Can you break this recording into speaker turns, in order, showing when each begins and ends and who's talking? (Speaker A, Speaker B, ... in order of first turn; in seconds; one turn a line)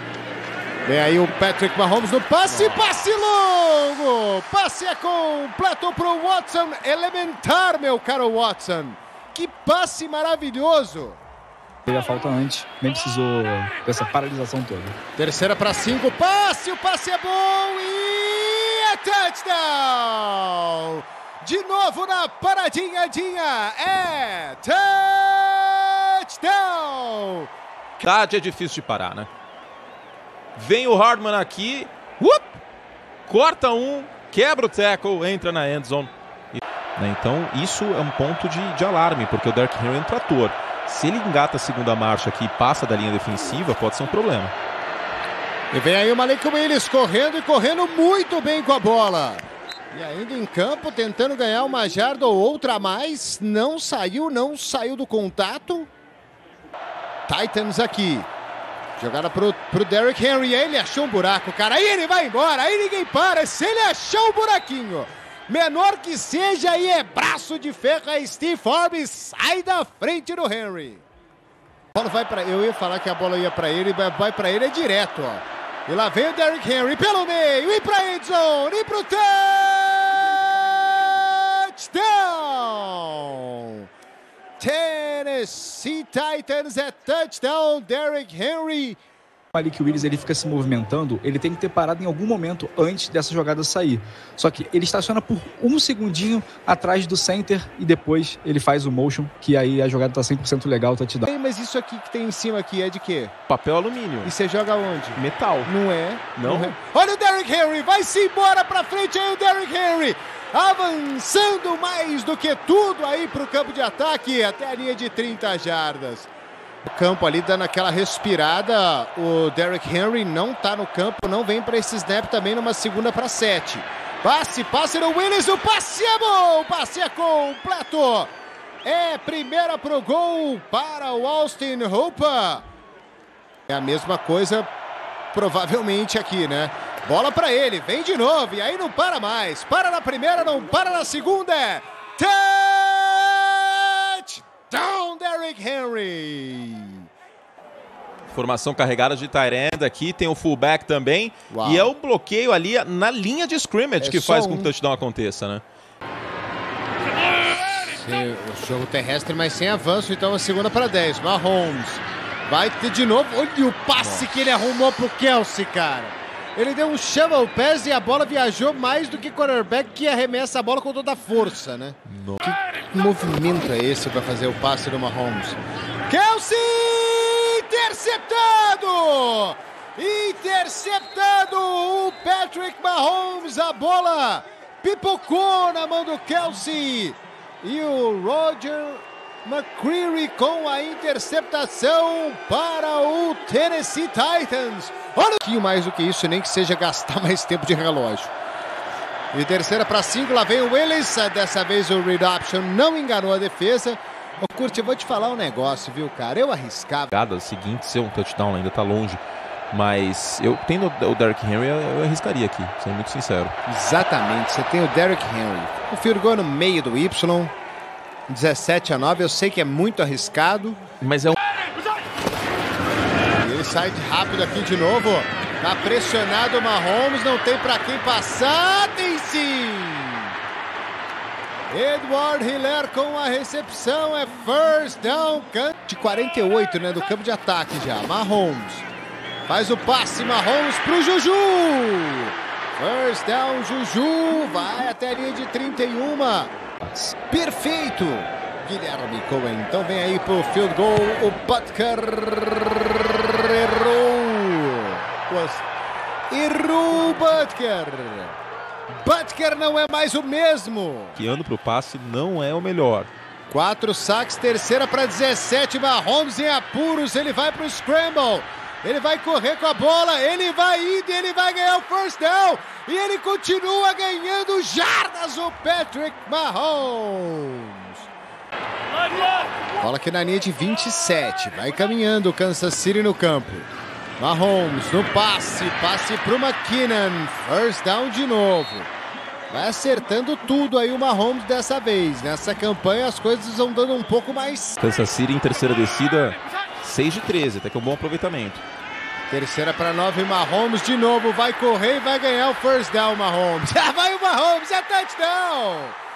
Speaker A: 0.8-11.2
Speaker B: 11.8-15.0
Speaker A: 15.2-27.5
Speaker C: 28.0-29.3
Speaker C: 30.6-32.6
Speaker C: 33.3-44.5
Speaker A: 45.7-55.9
Speaker A: 57.3-58.3
Speaker A: 59.0-71.0
Speaker A: 71.9-83.9
Speaker A: 84.6-89.0
Speaker B: 89.5-101.2
Speaker A: 101.2-103.3
Speaker C: 103.5-104.3
Speaker A: 104.2-116.3
Speaker C: 105.2-105.7
Speaker C: 106.4-106.8
Speaker A: 116.8-128.3
Speaker A: 128.8-132.6
Speaker A: 133.7-134.7
Speaker A: 135.3-147.1
Speaker C: 148.3-155.6
Speaker A: 151.5-151.9
Speaker A: 154.0-154.7
Speaker A: 157.4-198.3
Speaker C: 164.0-164.3
Speaker C: 172.1-172.4
Speaker A: 199.3-207.1
Speaker C: 207.1-213.5
Speaker A: 213.7-217.5
Speaker A: 218.3-220.8
Speaker C: 221.0-221.3
Speaker A: 223.4-230.3
Speaker A: 231.7-238.9
Speaker A: 239.4-246.5
Speaker B: 246.8-247.1
Speaker A: 247.3-255.7
Speaker A: 256.3-258.3
Speaker A: 259.0-261.2
Speaker C: 261.2-263.1
Speaker A: 263.5-278.1
Speaker A: 279.8-288.9
Speaker A: 289.5-294.8
Speaker C: 294.8-298.6
Speaker A: 299.3-306.0